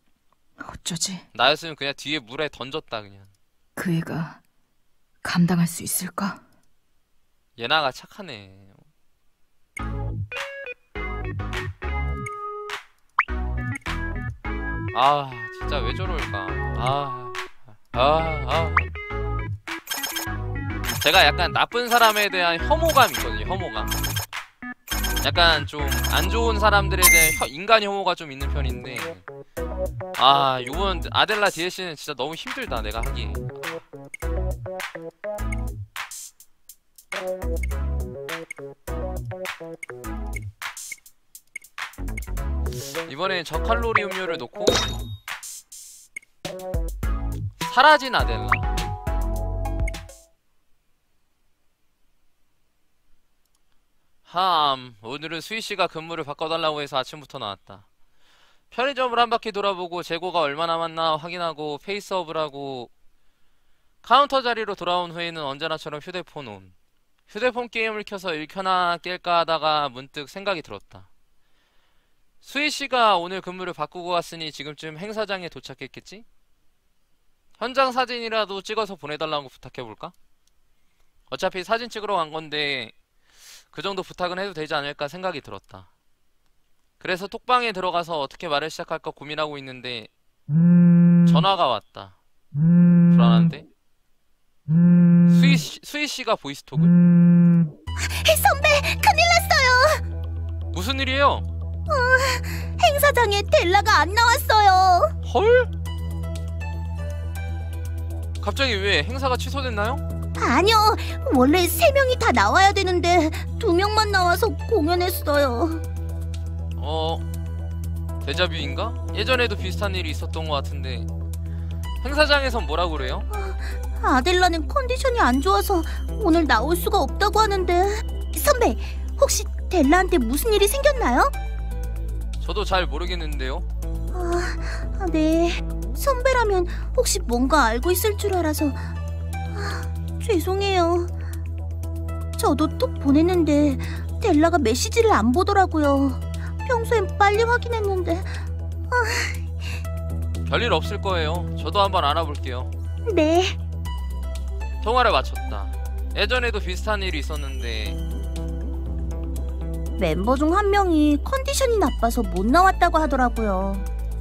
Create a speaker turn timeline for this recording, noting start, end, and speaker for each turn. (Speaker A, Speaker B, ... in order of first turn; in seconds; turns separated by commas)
Speaker A: 0.6-1.2, Speaker B: 1.3-3.3, Speaker A: 3.8-4.4, Speaker A: 5.2-6.4, Speaker B: 7.6-8.8, Speaker B: 14.9-17.4, Speaker B: 17.9-18.9, Speaker B: 21.0-23.9, Speaker B: 25.2-29.2, Speaker B: 30.2-33.8, Speaker B: 43.1-44.9, Speaker B: 47.6-48.7, Speaker B: 54.3-57.8, Speaker B: 58.7-62.9, Speaker B: 64.0-66.7, Speaker B: 67.3-71.1, Speaker B: 72.4-76.2, Speaker B: 77.6-80.1, Speaker B: 81.3-82.9, Speaker B: 83.7-85.9, Speaker B: 87.0-90.1, Speaker B: 91.2-92.2, Speaker B: 93.1-93.7, Speaker B: 95.3-96.9, Speaker C: 98.0-100.0, Speaker B: 100.7-101.4, Speaker C: 101.9-105.1, Speaker B: 105.2-105.7, Speaker B: 108.4-110.0, Speaker C: 110.3-115.8, Speaker B: 116.8-117.2, Speaker B: 118.2-121.1, Speaker B: 122.0-123.2, Speaker C: 123.3-131.3, Speaker B: 132.4-133.7, Speaker C: 134.1-138.9, Speaker C: 139.5-141.1, Speaker C: 142.4-149.7, Speaker B: 150.5-152.7, Speaker C: 153.1-153.6, Speaker B: 154.8-158.0, Speaker C: 160.0-163.8